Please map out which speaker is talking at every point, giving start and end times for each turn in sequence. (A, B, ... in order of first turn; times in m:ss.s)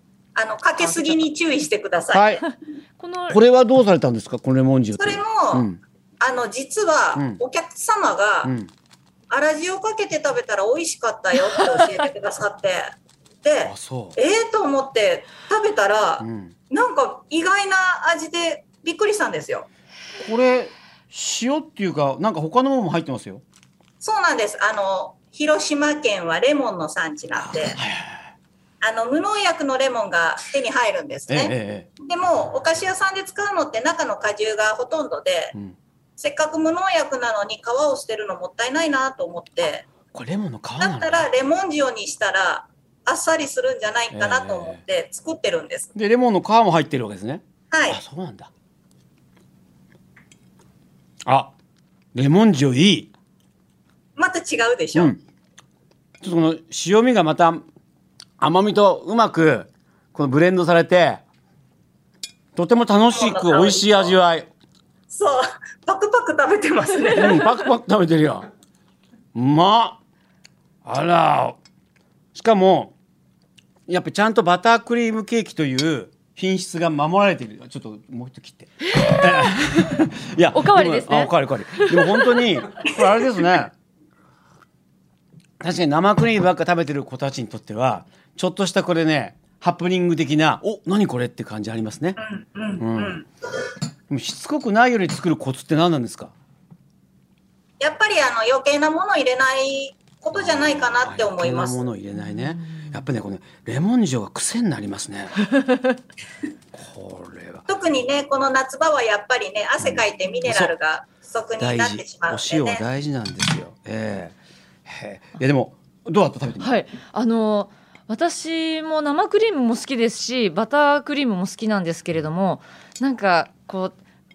0:00.4-0:02.4 A
0:02.1-0:02.4 B
0:03.0-0:03.4 C
0:03.3-0:05.8 B
0:05.0-0:05.6 A
0:06.2-0:08.5 A
0:08.4-0:08.7 B
0:09.3-0:19.7 A
0:13.6-0:14.2 B
0:16.2-0:16.5 B
0:20.2-0:23.4 B
0:24.0-0:27.8 A
0:27.8-0:28.2 B
0:28.8-0:35.5 A
0:31.3-0:31.9 B
0:36.2-0:39.9 A
0:40.1-0:41.2 B
0:40.8-0:45.9 A
0:44.1-0:44.8 B
0:45.9-0:48.5 B
0:47.7-0:48.0 A
0:51.2-0:51.5 B
0:52.1-0:53.1 B
0:54.2-0:55.1 A
0:54.9-0:55.2 B
0:56.2-0:57.6 B
0:58.4-1:01.2 B
1:02.6-1:04.5 B
1:03.1-1:04.1 A
1:05.1-1:07.4 A
1:07.1-1:08.5 B
1:09.4-1:10.0 B
1:10.8-1:11.6 B
1:12.3-1:12.9 B
1:13.9-1:23.7 B
1:18.9-1:19.8 C
1:20.5-1:22.5 C
1:25.6-1:32.2 B
1:32.2-1:33.3 A
1:32.8-1:33.2 B
1:34.1-1:36.3 B
1:37.8-1:41.9 A
1:40.4-1:45.4 B
1:46.7-1:47.7 B
1:47.7-1:52.8 A
1:49.8-1:50.7 B
1:51.6-1:54.4 B
1:54.9-1:56.7 B
1:56.6-2:03.9 C